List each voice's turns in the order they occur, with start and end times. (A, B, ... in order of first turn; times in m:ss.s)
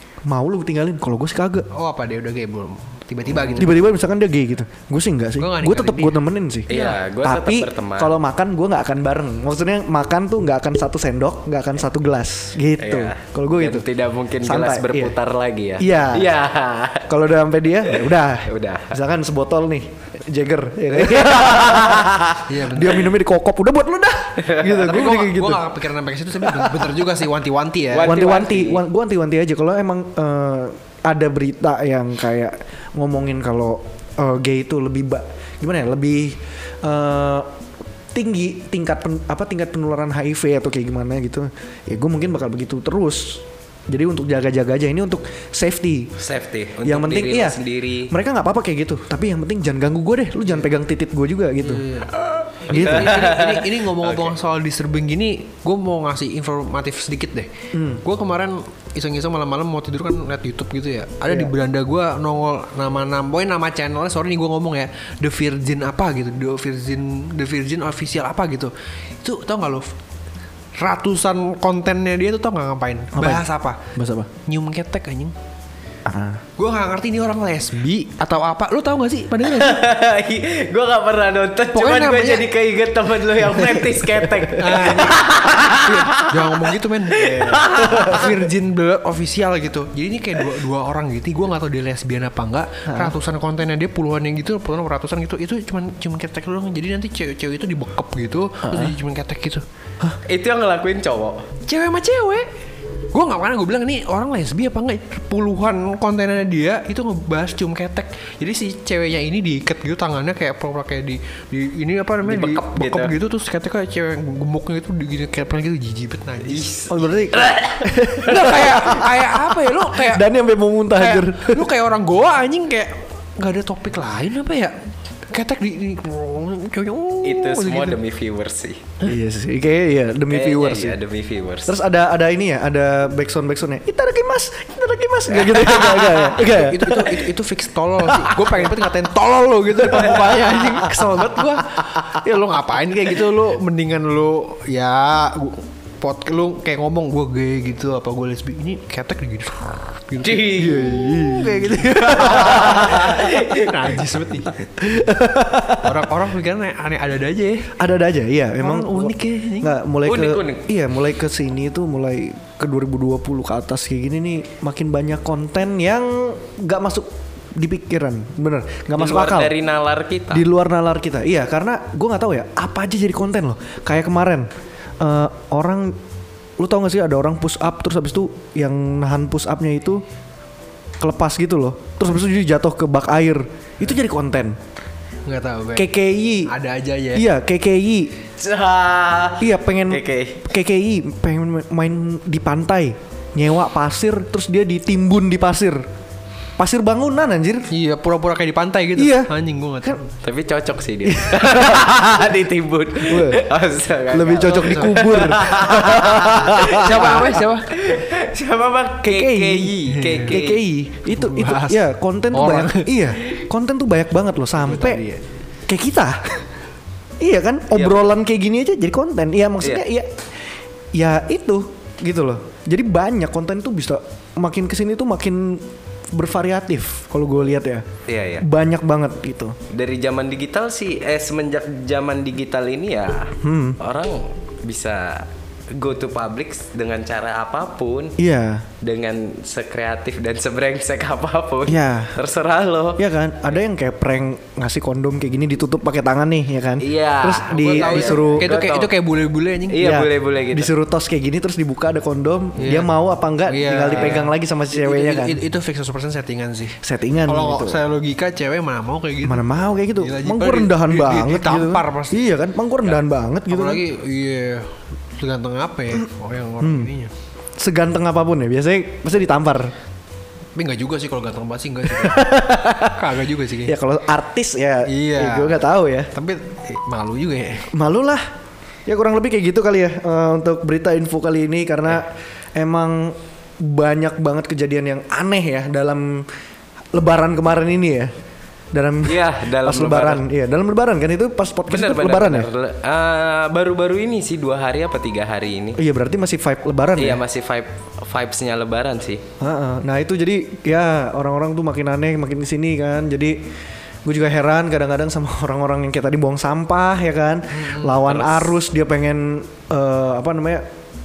0:00.2-0:01.7 A
0:01.7-0:03.8 B
0:03.6-0:06.7 A
0:05.4-0:07.0 B
0:06.7-0:08.2 C
0:07.2-0:13.8 A
0:12.8-0:17.1 C
0:14.4-0:15.2 A
0:15.8-0:16.3 A
0:17.1-0:25.7 A
0:17.9-0:19.0 C
0:21.0-0:22.4 C
0:22.4-0:23.1 B
0:24.4-0:24.8 C
0:24.6-0:28.2 B
0:26.4-0:26.9 A
0:27.9-0:28.8 C
0:28.0-0:37.5 A
0:38.1-0:46.1 A
0:46.2-0:48.1 C
0:46.8-0:51.8 A
0:51.6-1:09.9 B
0:52.7-0:53.2 A
0:52.7-0:54.3 C
0:57.7-0:58.0 A
1:01.3-1:01.5 A
1:10.8-1:15.3 B
1:13.1-1:14.3 A
1:16.0-1:16.4 A
1:16.6-1:19.9 B
1:19.4-1:28.4 C
1:21.7-1:22.5 B
1:24.5-1:39.6 B
1:32.9-1:33.1 A
1:40.2-1:41.5 C
1:41.7-1:42.5 B
1:43.1-1:56.8 B
1:52.2-1:53.1 C
1:56.4-1:58.5 C
1:56.9-2:01.7 A
1:58.2-2:00.2 B
2:00.9-2:08.0 B
2:07.2-2:08.9 C
2:09.0-2:11.0 A
2:10.3-2:11.8 C
2:11.7-2:17.3 A
2:15.4-2:16.4 C
2:16.4-2:34.6 B
2:18.0-2:18.7 A
2:19.8-2:21.0 A
2:30.2-2:31.0 C
2:30.6-2:33.2 A
2:32.4-2:33.7 C
2:34.8-2:36.0 A
2:35.8-2:37.7 B
2:37.8-2:49.5 A
2:38.6-2:39.7 B
2:40.0-2:40.6 C
2:49.0-2:50.4 C
2:50.3-2:54.5 A
2:55.0-2:56.0 A
2:56.6-3:00.0 A
3:01.0-3:04.6 A
3:05.2-3:05.9 B
3:05.7-3:06.5 A
3:06.4-3:07.3 B
3:07.1-3:08.1 A
3:08.4-3:10.4 C
3:09.4-3:15.8 A
3:16.6-3:17.7 A
3:17.7-3:20.1 B
3:19.0-3:19.3 A
3:20.2-3:30.6 C
3:21.1-3:21.8 A
3:23.1-3:23.4 A
3:24.1-3:27.4 A
3:24.4-3:25.1 B
3:26.5-3:27.7 B
3:29.0-3:35.0 A
3:29.9-3:30.4 B
3:31.1-3:33.1 B
3:34.6-3:35.2 B
3:35.7-3:36.4 A
3:37.2-3:40.1 A
3:37.7-3:38.1 C
3:40.9-3:47.9 A
3:48.1-3:48.5 C
3:48.4-3:49.6 A
3:49.7-3:58.2 C
3:53.4-3:53.8 A
3:58.2-3:58.7 A
3:58.8-4:03.0 C
4:01.7-4:02.2 A
4:03.0-4:08.5 A
4:06.8-4:09.0 C
4:07.5-4:09.8 B
4:09.7-4:10.7 C
4:09.8-4:15.4 A
4:12.6-4:12.9 B
4:13.5-4:22.2 B
4:16.8-4:17.8 A
4:19.2-4:23.8 A
4:22.8-4:27.1 B
4:26.6-4:26.9 A
4:27.6-4:29.7 A
4:30.6-4:33.8 B
4:31.9-4:33.0 A
4:33.7-4:36.1 A
4:34.8-4:35.6 B
4:36.1-4:37.8 B
4:37.7-4:38.2 A
4:38.8-4:46.3 A
4:46.9-4:48.1 A
4:48.7-4:52.5 A
4:49.0-4:50.2 C
4:51.7-4:55.8 C
4:55.8-4:57.2 A
4:57.0-4:59.2 C
4:59.4-5:03.4 A
5:04.0-5:10.7 A
5:07.5-5:08.1 B
5:08.0-5:08.5 C